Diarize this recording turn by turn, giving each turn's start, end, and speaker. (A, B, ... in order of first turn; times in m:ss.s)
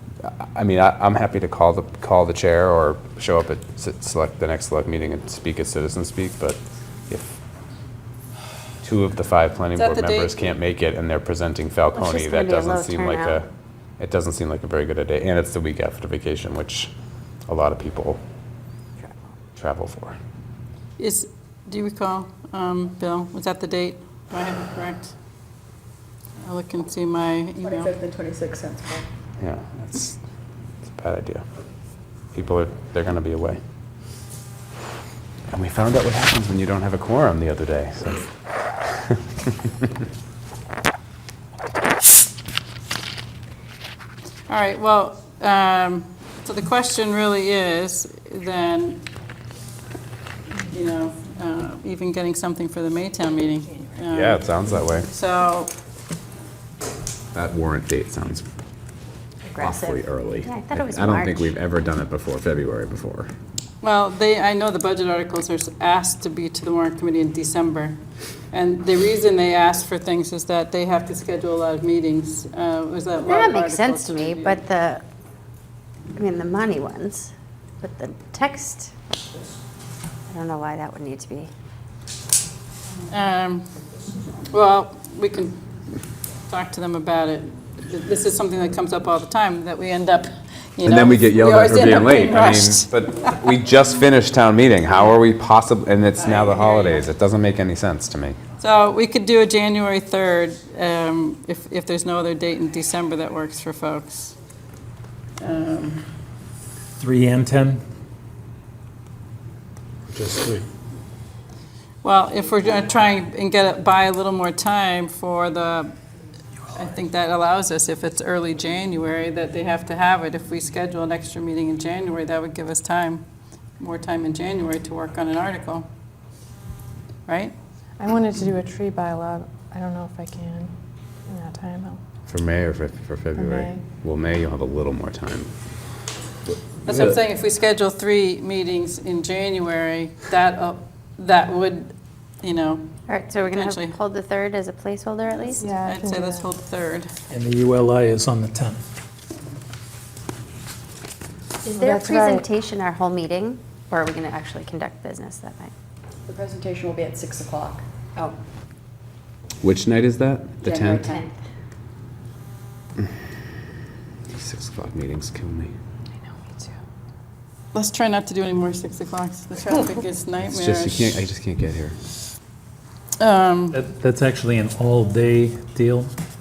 0:00.2-0:07.3 A
0:08.8-0:13.4 A
0:09.8-0:10.4 B
0:12.0-0:13.4 C
0:14.0-0:16.9 A
0:17.5-0:18.2 A
0:19.6-0:20.2 A
0:21.0-0:25.1 B
0:26.4-0:27.9 B
0:27.6-0:29.0 D
0:29.4-0:30.2 A
0:30.9-0:31.4 A
0:32.3-0:33.6 A
0:35.5-0:38.3 A
0:38.8-0:39.9 A
0:44.5-0:49.0 B
0:50.7-0:54.4 B
0:54.1-0:55.1 A
0:55.1-0:55.7 B
0:57.3-0:58.5 A
0:59.4-1:01.5 C
0:59.6-1:03.3 A
1:03.8-1:08.0 B
1:08.5-1:14.6 B
1:13.2-1:15.0 C
1:16.2-1:18.9 C
1:20.3-1:21.5 C
1:23.1-1:23.7 B
1:24.5-1:25.6 B
1:26.5-1:32.9 B
1:30.8-1:38.4 A
1:36.2-1:37.0 B
1:38.6-1:44.4 B
1:45.4-1:46.1 B
1:47.0-1:47.8 E
1:50.1-1:50.6 E
1:52.0-1:55.9 B
1:56.7-2:03.2 B
2:03.8-2:05.9 B
2:07.3-2:07.5 B
2:08.0-2:10.7 F
2:11.3-2:12.0 F
2:12.3-2:15.5 A
2:16.9-2:22.9 B
2:23.1-2:25.8 C
2:23.5-2:24.0 B
2:25.6-2:26.5 F
2:25.8-2:27.1 B
2:27.3-2:28.8 E
2:31.6-2:32.4 F
2:31.8-2:35.7 C
2:36.3-2:37.8 D
2:39.6-2:41.2 A
2:40.6-2:41.2 D
2:40.9-2:41.4 C
2:44.3-2:45.7 A
2:46.3-2:46.7 F
2:47.7-2:51.2 B
2:50.4-2:52.0 A
2:53.2-2:53.8 B
2:53.7-2:56.1 E